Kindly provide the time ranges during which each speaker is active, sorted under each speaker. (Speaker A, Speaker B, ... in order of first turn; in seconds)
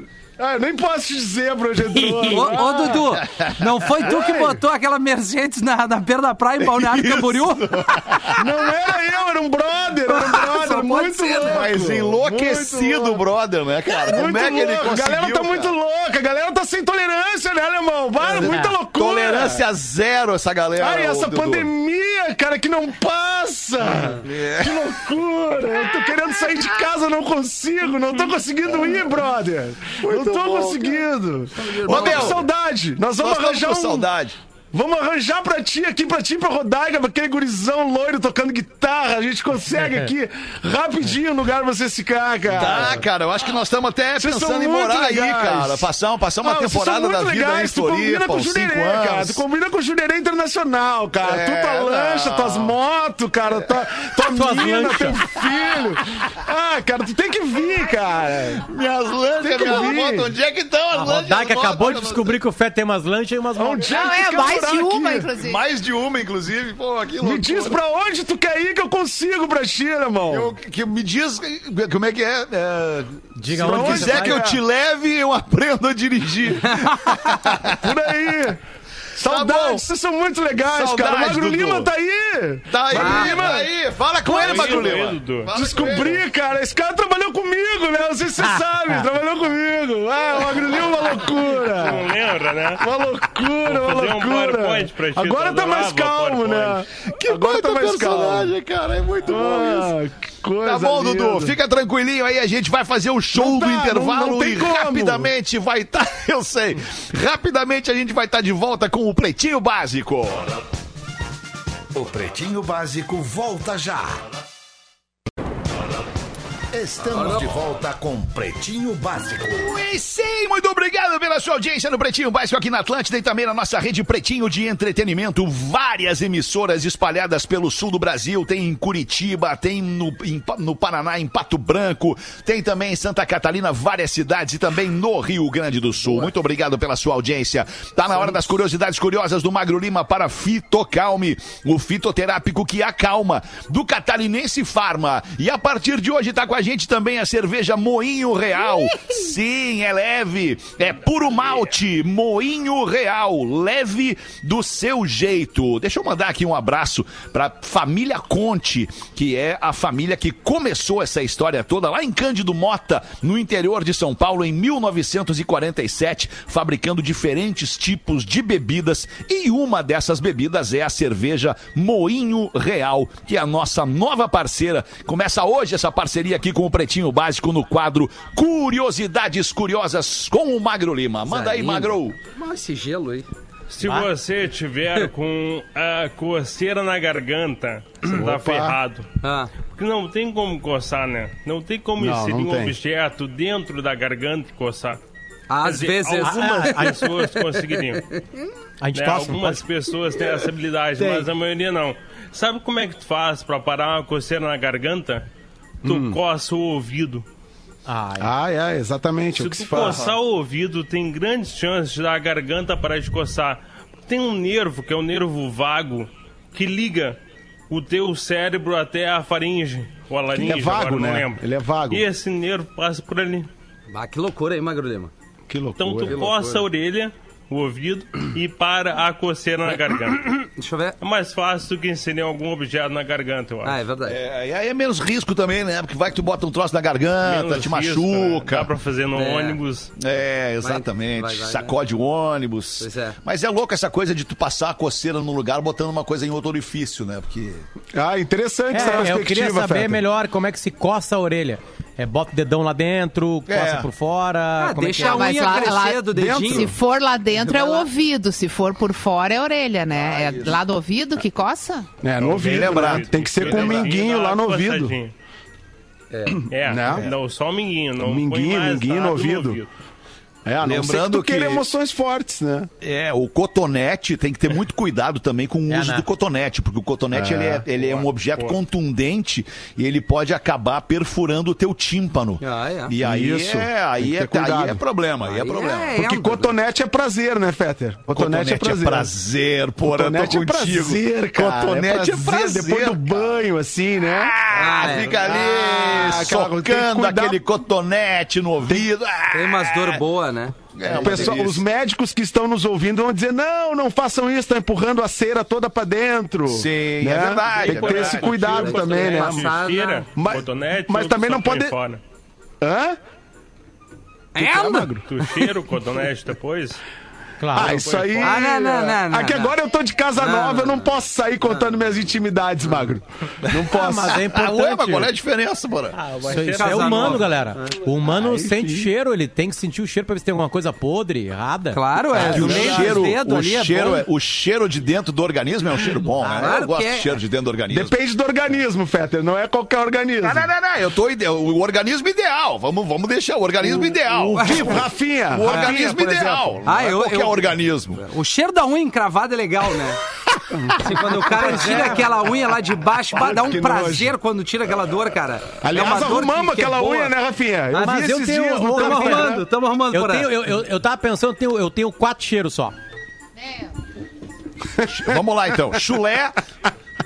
Speaker A: 0.4-3.2, 4.0-4.6, 8.3-13.2, 13.9-19.6, 20.8-34.1, 34.7-43.0, 44.2-45.9, 46.4-58.6, 59.4-60.3, 63.5-65.3, 67.2-70.5, 73.5-74.6, 77.6-78.6, 79.2-83.7, 84.2-84.9, 85.5-92.1, 92.8-98.5, 99.2-101.5, 103.3-105.3, 188.1-188.8, 192.0-192.7, 201.0-201.2, 205.8-206.2, 208.2-210.1, 220.3-222.0, 225.5-226.7, 247.9-250.0, 256.1-256.7, 262.0-264.9, 266.6-267.1, 268.0-269.6, 270.4-272.7, 277.1-277.7, 283.0-284.8, 285.9-289.1, 289.8-294.3, 295.2-297.4, 300.8-309.5, 310.1-311.7, 312.6-313.0, 314.4-315.0, 317.5-324.2, 328.0-328.9, 332.1-333.0, 337.7-340.5, 343.7-346.6, 350.5-351.9, 353.1-354.1, 355.6-359.4
Speaker B: 1.9-2.6, 18.4-18.8, 39.8-40.1, 54.2-55.2, 60.9-63.9, 73.3-74.4, 88.4-89.0, 183.8-184.1, 196.2-197.1, 198.8-199.6, 207.9-208.3, 248.7-255.7, 275.7-276.1, 317.4-317.9, 323.7-325.1, 326.2-332.6, 336.2-336.5, 344.2-344.6, 351.3-352.0, 357.7-362.7
Speaker C: 2.3-8.2, 10.1-12.1, 31.5-32.4, 82.9-83.5, 117.1-117.5, 136.0-136.3, 181.2-183.3, 189.2-189.5, 195.5-198.4, 223.9-225.1, 230.6-231.0, 233.6-234.2, 239.1-239.6, 240.6-241.7, 242.8-243.2, 254.6-256.7, 257.4-257.9, 266.1-266.4, 282.4-282.9, 285.2-286.5, 294.5-296.3, 299.3-301.4, 307.6-310.1, 314.3-315.0, 318.2-319.6, 320.2-320.9, 326.2-327.8, 331.7-334.1, 336.2-337.2, 344.4-344.6, 345.4-345.8, 346.6-350.0, 350.8-357.1, 358.7-360.3
Speaker D: 3.2-3.6, 6.6-8.4, 11.4-15.7, 18.3-21.7, 24.2-25.0, 28.7-29.1, 29.9-31.0, 31.8-32.5, 33.2-34.4, 42.5-49.4, 51.2-52.7, 58.6-62.4, 65.4-67.8, 70.3-77.9, 79.2-79.8, 80.7-81.9, 82.7-86.2, 97.1-100.0, 100.6-110.6, 119.5-182.2, 234.1-238.7, 240.0-247.7, 253.5-253.9, 259.9-260.6, 262.2-263.9, 270.6-271.6, 272.8-286.0, 288.1-293.3, 294.1-300.0, 300.7-301.6, 306.5-309.0, 323.5-326.0, 332.1-337.9, 340.2-348.0, 364.8-366.4
Speaker E: 63.9-65.6, 255.0-261.9, 363.4-363.7
Speaker F: 84.3-85.5, 91.6-92.9, 93.6-96.8, 183.7-189.1, 189.7-195.0, 195.6-198.0, 198.9-205.2, 205.8-207.2, 209.3-217.2, 217.7-223.5, 225.8-230.4, 231.0-233.8, 237.2-239.9, 262.6-265.1, 266.5-269.7, 309.0-312.0, 315.1-316.8, 317.5-318.4, 326.1-327.2
Speaker G: 111.9-114.2, 116.7-119.8